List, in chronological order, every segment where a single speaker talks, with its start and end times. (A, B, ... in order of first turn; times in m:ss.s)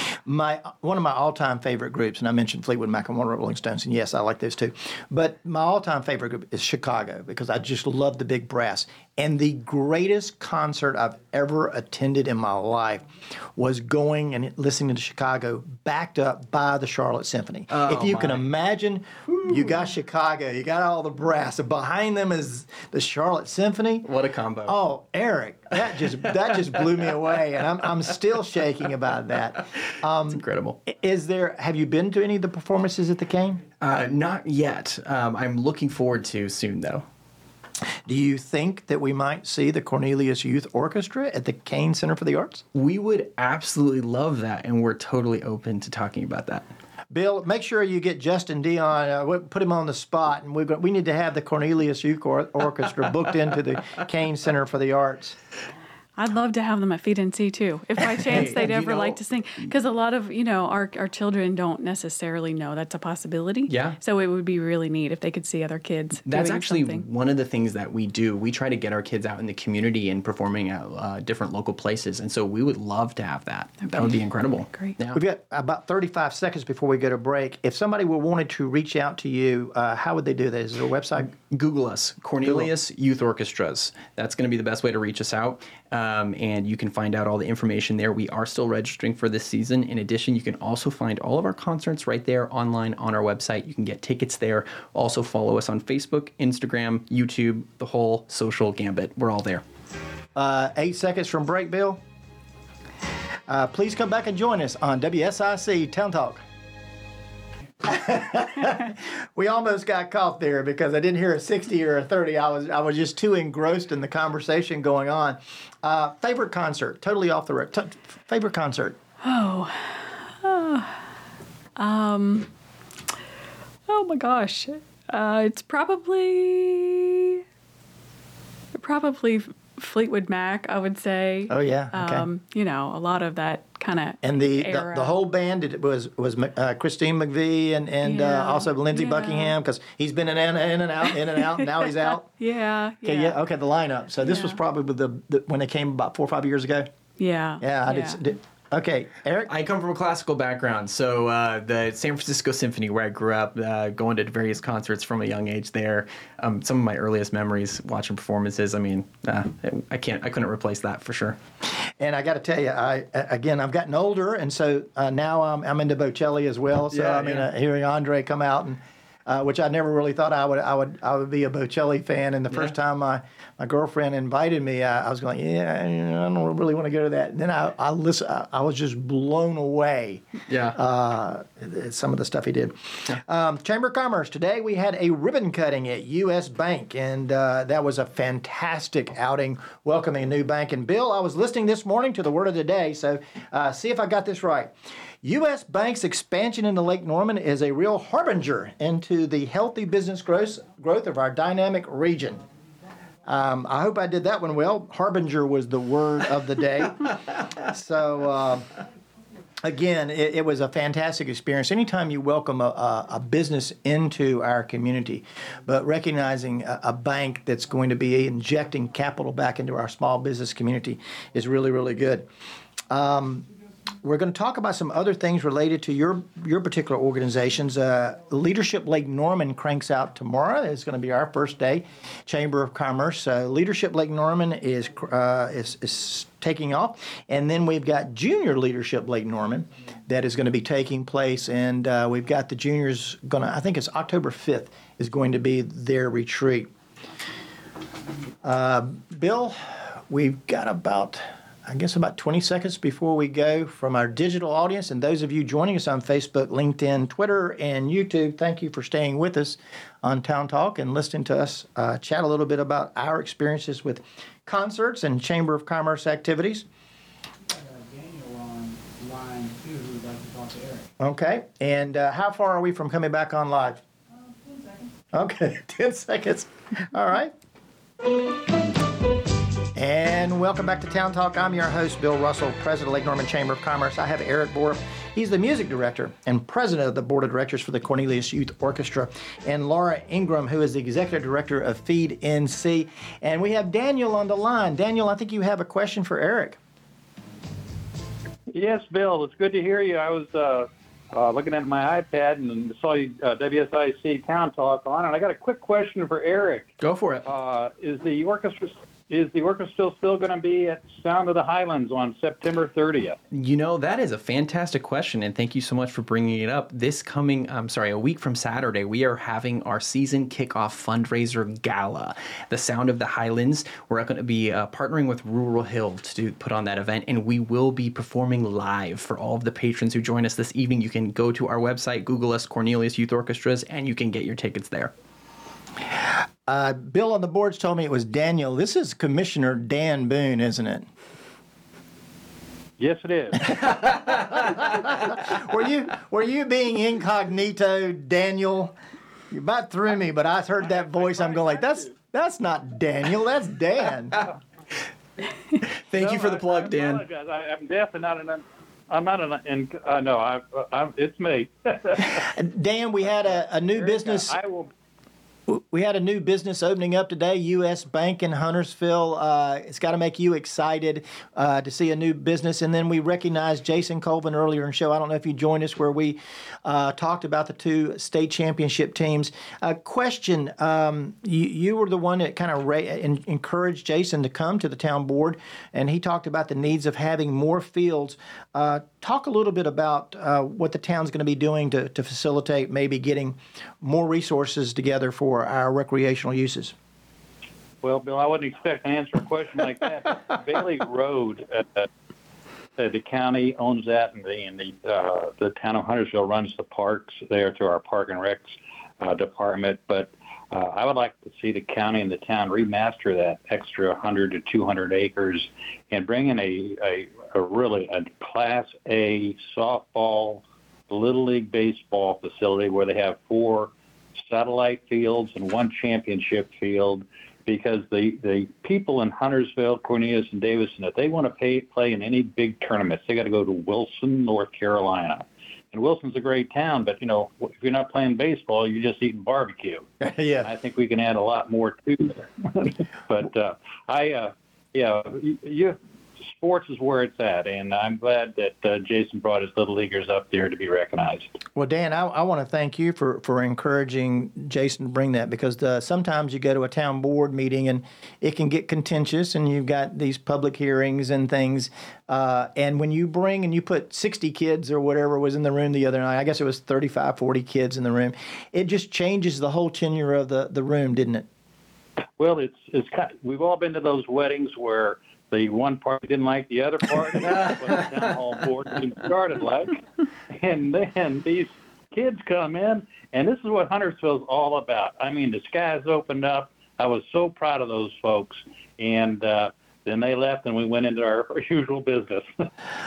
0:00.1-0:24.1 A
0:17.7-0:18.4 B
0:19.3-0:19.7 B
0:24.0-0:24.8 B
0:24.6-0:33.6 A
0:30.3-0:30.8 B
0:33.8-0:37.0 B
0:38.0-0:42.6 A
0:42.7-0:46.6 B
0:47.1-0:55.4 A
0:56.2-1:07.0 C
0:58.1-0:59.7 B
1:03.7-1:04.0 B
1:06.2-1:15.2 B
1:15.1-1:21.3 A
1:21.4-1:39.6 B
1:22.4-1:22.7 A
1:40.3-1:42.0 A
1:43.5-1:46.4 A
1:47.8-1:59.0 A
1:59.2-2:00.9 C
2:01.8-2:02.5 C
2:03.9-2:07.4 C
2:08.8-2:15.1 C
2:11.5-2:12.3 A
2:14.2-2:22.3 A
2:18.0-2:19.6 C
2:21.4-2:23.4 C
2:23.0-2:26.9 A
2:24.2-2:24.6 C
2:27.2-2:28.2 C
2:27.6-2:29.5 A
2:29.4-2:41.4 B
2:42.0-3:22.4 A
2:46.9-2:47.5 B
3:00.5-3:00.8 B
3:23.2-3:28.7 A
3:29.6-3:42.3 A
3:42.9-3:43.4 A
3:44.0-4:06.7 A
4:08.4-4:26.6 A
4:27.5-4:30.9 D
4:31.0-4:33.8 A
4:35.1-4:37.3 A
4:39.7-4:56.6 A
4:58.5-5:06.7 E
5:06.8-5:07.2 B
5:07.2-5:13.2 E
5:13.3-5:34.9 B
5:35.9-5:40.9 A
5:42.8-5:43.8 E
5:44.3-5:48.7 A
5:49.3-5:54.2 A
5:50.8-5:51.8 E
5:55.9-5:57.0 B
5:56.0-6:02.3 E
6:02.1-6:04.4 A
6:03.2-6:04.7 E
6:05.5-6:36.7 A
6:37.8-6:41.9 E
6:42.8-7:19.8 E
7:20.0-7:20.5 A
7:20.4-7:31.4 E
7:31.5-7:51.3 A
7:52.2-7:59.8 E
8:00.3-8:12.4 E